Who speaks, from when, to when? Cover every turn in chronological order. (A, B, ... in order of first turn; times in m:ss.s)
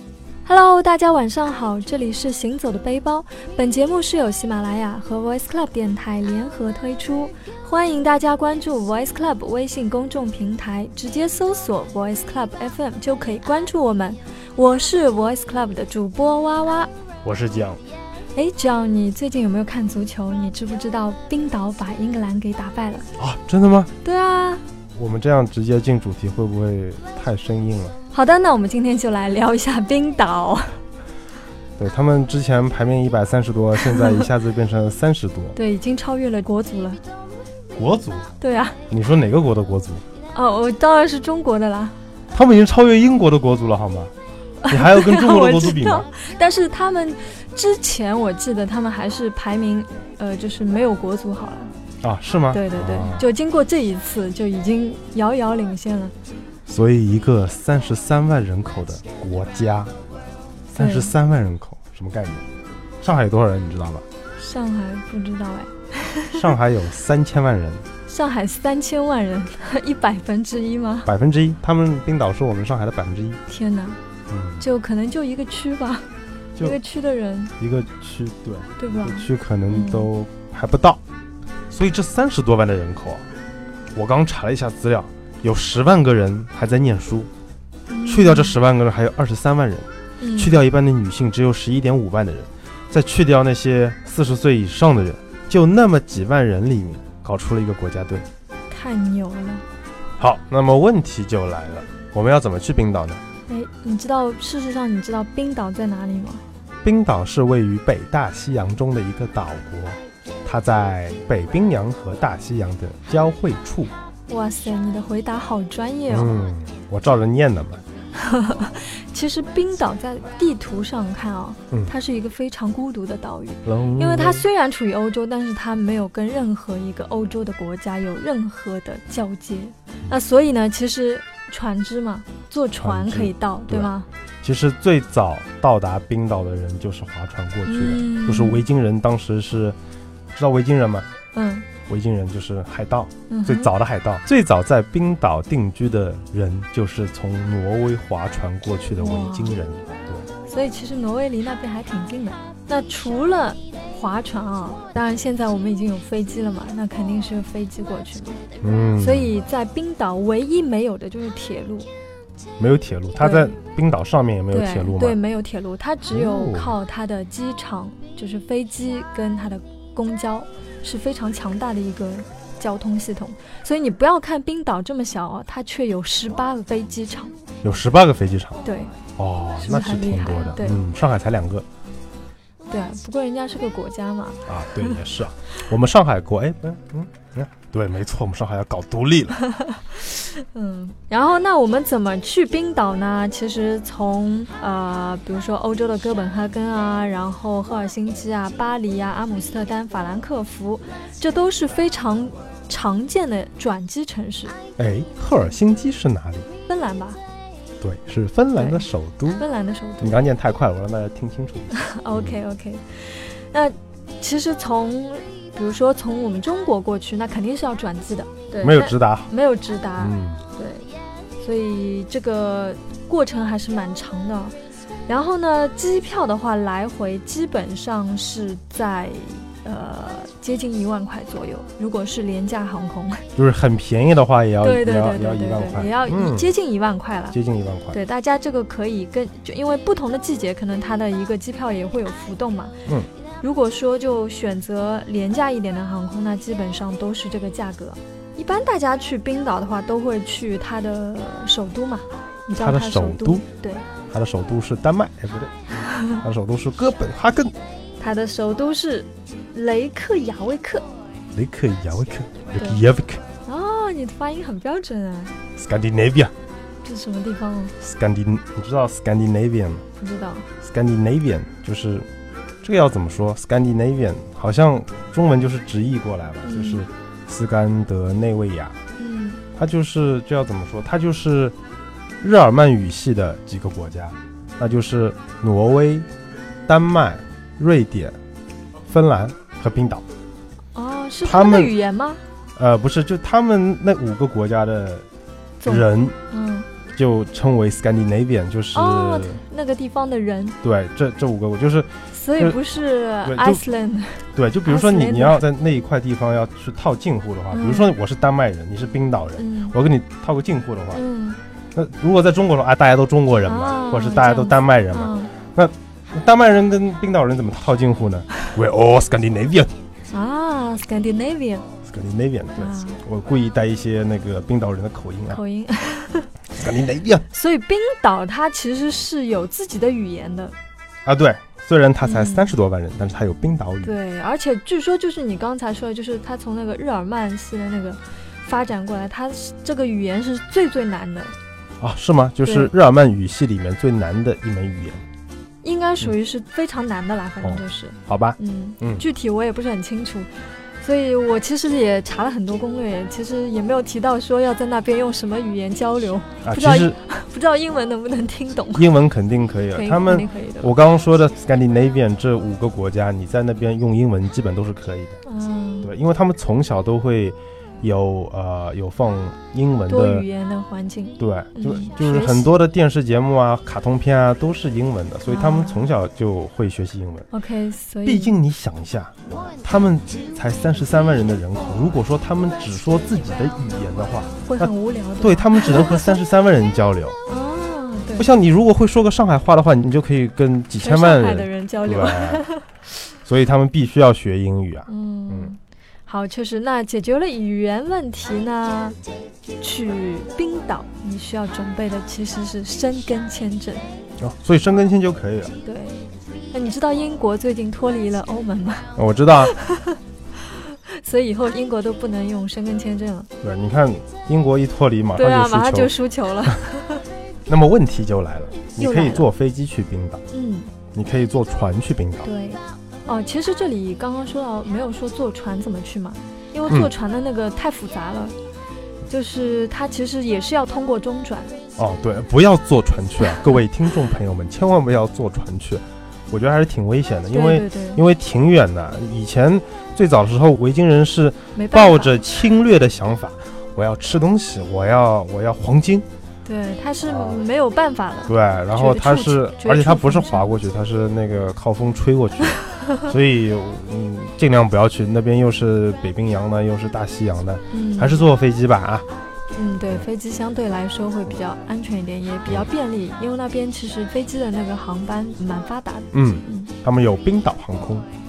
0:00.4-0:16.9 A
0:17.2-0:17.8 B
0:18.3-0:23.1 A
0:23.2-0:23.9 B
0:24.0-0:24.6 A
0:24.9-0:28.0 B
0:28.1-0:30.8 A
0:31.8-0:35.6 B
0:33.9-0:34.2 A
0:35.5-0:37.0 A
0:37.7-0:38.3 B
0:38.4-0:38.8 A
0:38.9-0:40.0 B
0:40.3-0:42.0 A
0:42.3-0:44.1 B
0:44.6-0:51.7 A
0:44.7-0:46.1 B
0:52.0-0:53.3 B
0:52.5-0:56.1 A
0:56.7-0:59.9 B
1:00.7-1:01.1 A
1:00.7-1:02.4 B
1:03.0-1:04.0 B
1:04.4-1:06.5 A
1:06.3-1:07.8 B
1:08.1-1:11.1 A
1:11.0-1:13.4 B
1:13.5-1:14.0 A
1:14.3-1:14.7 B
1:14.6-1:16.1 A
1:16.6-1:17.5 A
1:17.6-1:21.0 B
1:18.8-1:20.1 A
1:21.7-1:23.2 B
1:23.9-1:27.3 B
1:27.9-1:28.6 A
1:28.0-1:38.3 B
1:30.2-1:30.6 A
1:38.7-1:39.6 A
1:40.2-1:43.2 B
1:43.5-1:46.4 A
1:46.8-1:53.9 B
1:54.3-1:56.4 A
1:56.1-1:57.8 B
1:58.1-2:14.1 A
2:03.6-2:04.5 B
2:12.8-2:13.9 B
2:14.4-2:19.8 B
2:17.6-2:18.6 A
2:20.3-2:21.1 B
2:21.3-2:21.7 A
2:21.8-2:30.3 B
2:23.3-2:23.7 A
2:29.0-2:29.6 A
2:30.5-2:38.4 A
2:38.6-2:39.4 B
2:39.0-2:41.9 A
2:42.6-2:45.2 B
2:43.2-2:43.5 A
2:44.5-2:57.3 A
2:46.1-2:46.8 B
2:57.6-2:58.6 B
2:58.6-2:59.0 A
2:59.2-3:01.6 B
2:59.6-3:00.8 A
3:02.7-3:05.0 A
3:04.4-3:09.4 B
3:09.5-3:24.5 A
3:24.8-3:26.5 B
3:26.6-3:27.2 A
3:27.8-3:29.4 B
3:28.6-3:28.8 A
3:29.4-3:30.2 A
3:30.0-3:32.3 B
3:31.7-3:44.5 A
3:38.6-3:39.3 B
3:40.0-3:40.4 B
3:45.1-3:53.2 A
3:53.4-3:56.5 B
3:54.6-3:57.4 A
3:57.3-3:58.0 B
3:57.9-4:02.7 A
4:03.4-4:13.8 A
4:12.6-4:13.4 B
4:14.1-4:15.5 B
4:15.8-4:16.2 A
4:16.1-4:17.5 B
4:18.0-4:20.8 A
4:21.3-4:23.2 B
4:23.4-4:25.3 A
4:25.6-4:26.3 B
4:26.8-4:27.7 A
4:27.8-4:29.8 B
4:30.0-4:30.5 A
4:30.6-4:32.1 B
4:32.6-4:38.8 B
4:36.4-4:36.8 A
4:39.0-4:39.4 A
4:39.6-4:41.5 B
4:42.2-4:46.1 B
4:46.6-4:48.2 B
4:48.9-4:50.0 B
4:50.7-4:52.2 A
4:51.2-4:51.7 B
4:52.6-4:55.0 B
4:55.6-4:56.7 A
4:55.6-4:56.2 B
4:56.9-4:59.4 B
4:58.7-5:00.6 A
5:00.6-5:02.6 B
5:02.1-5:05.4 A
5:03.2-5:03.6 B
5:04.3-5:11.0 B
5:07.5-5:08.0 A
5:09.4-5:09.7 A
5:10.9-5:11.4 A
5:11.7-5:19.7 B
5:13.4-5:15.3 A
5:20.1-5:21.6 A
5:21.8-5:25.4 B
5:22.6-5:23.0 A
5:25.3-5:26.3 A
5:26.5-5:27.2 B
5:27.3-5:30.5 A
5:31.0-5:33.9 B
5:32.0-5:32.5 A
5:33.8-5:41.3 A
5:41.8-5:45.0 B
5:42.4-5:42.7 A
5:45.6-5:50.3 A
5:47.4-5:49.0 B
5:50.8-5:58.9 A
5:56.4-5:57.0 B
5:58.7-6:05.2 B
5:59.7-6:00.7 A
6:05.2-6:05.9 A
6:05.8-6:10.2 B
6:09.9-6:12.5 A
6:11.2-6:17.3 B
6:15.2-6:15.9 A
6:17.3-6:18.4 A
6:18.0-6:27.2 B
6:24.4-6:26.2 A
6:27.3-6:28.3 A
6:28.2-6:32.4 B
6:30.8-6:32.7 A
6:33.2-6:35.5 B
6:34.9-6:39.0 A
6:39.6-6:43.9 A
6:44.2-6:45.6 B
6:45.6-6:48.9 A
6:49.0-6:49.5 B
6:49.4-6:53.3 A
6:53.4-6:55.9 B
6:55.2-6:57.0 A
6:57.5-7:00.2 B
6:58.8-6:59.3 A
7:00.3-7:00.7 A
7:00.9-7:02.3 B
7:02.2-7:08.4 A
7:09.1-7:11.6 A
7:11.8-7:26.0 B
7:17.3-7:18.0 A
7:21.5-7:22.5 A
7:26.4-7:30.4 A
7:27.0-7:27.4 B
7:28.2-7:39.1 B
7:37.7-7:38.2 A
7:39.5-7:46.7 A
7:46.1-7:48.0 B